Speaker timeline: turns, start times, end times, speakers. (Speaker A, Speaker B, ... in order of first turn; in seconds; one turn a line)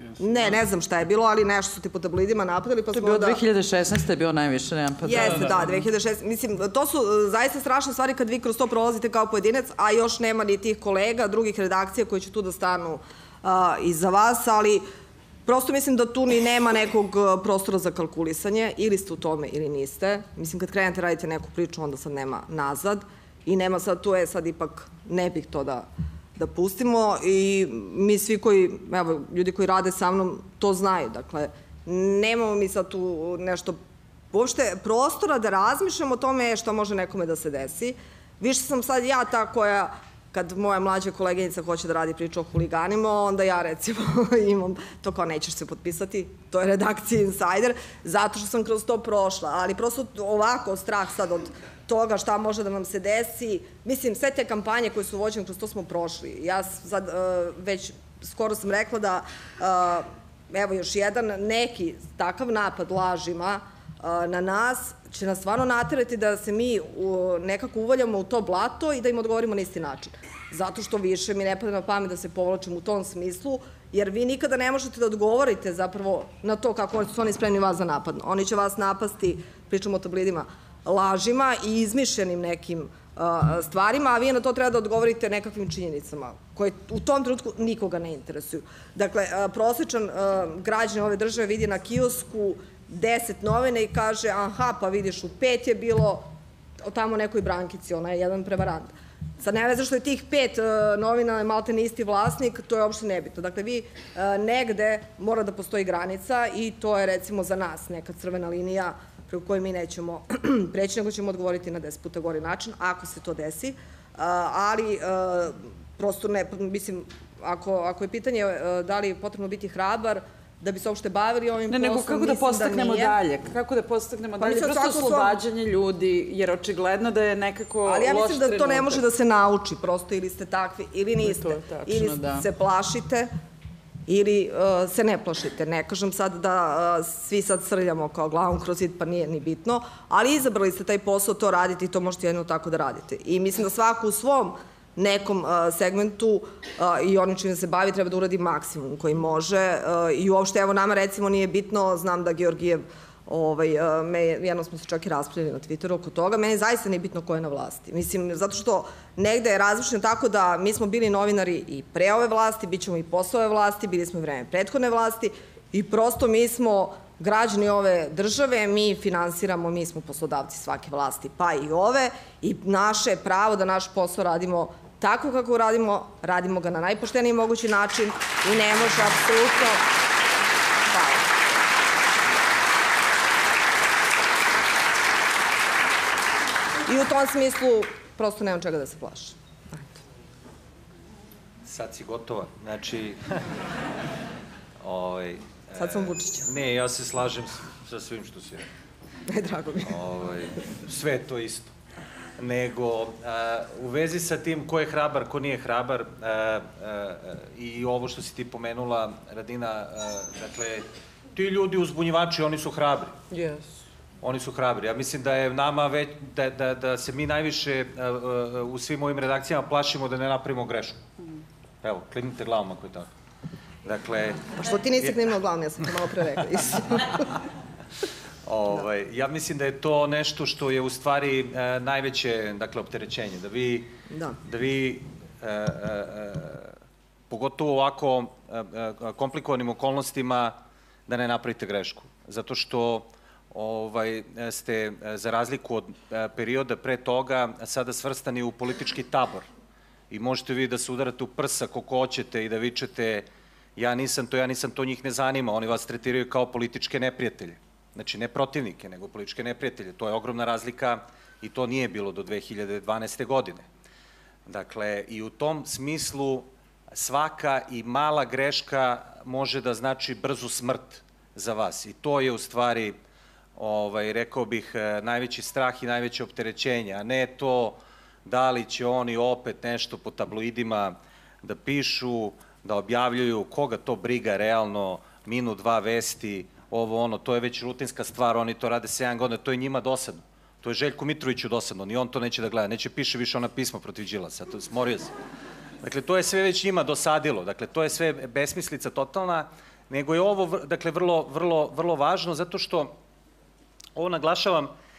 Speaker A: 0.2-3.4
Speaker B: 2.9-5.9
Speaker A: 5.0-14.9
Speaker A: 15.5-33.8
Speaker A: 34.3-96.3
Speaker A: 96.8-123.2
Speaker B: 121.7-129.0
Speaker A: 124.4-125.4
Speaker A: 127.9-133.3
Speaker B: 131.2-132.5
Speaker A: 134.1-179.8
Speaker A: 180.9-181.3
Speaker A: 186.9-189.9
Speaker C: 191.7-193.5
Speaker C: 194.8-198.7
Speaker A: 195.8-196.5
Speaker A: 199.3-200.0
Speaker C: 199.8-201.8
Speaker C: 202.4-213.2
Speaker B: 213.3-213.7
Speaker C: 214.2-221.0
Speaker C: 221.8-223.1
Speaker C: 223.8-225.2
Speaker A: 224.6-227.3
Speaker C: 228.5-236.8
Speaker A: 234.1-234.4
Speaker C: 237.3-249.5
Speaker C: 250.1-263.7
Speaker C: 264.5-273.0
Speaker C: 273.6-295.1
Speaker C: 295.8-303.0
Speaker C: 304.0-304.7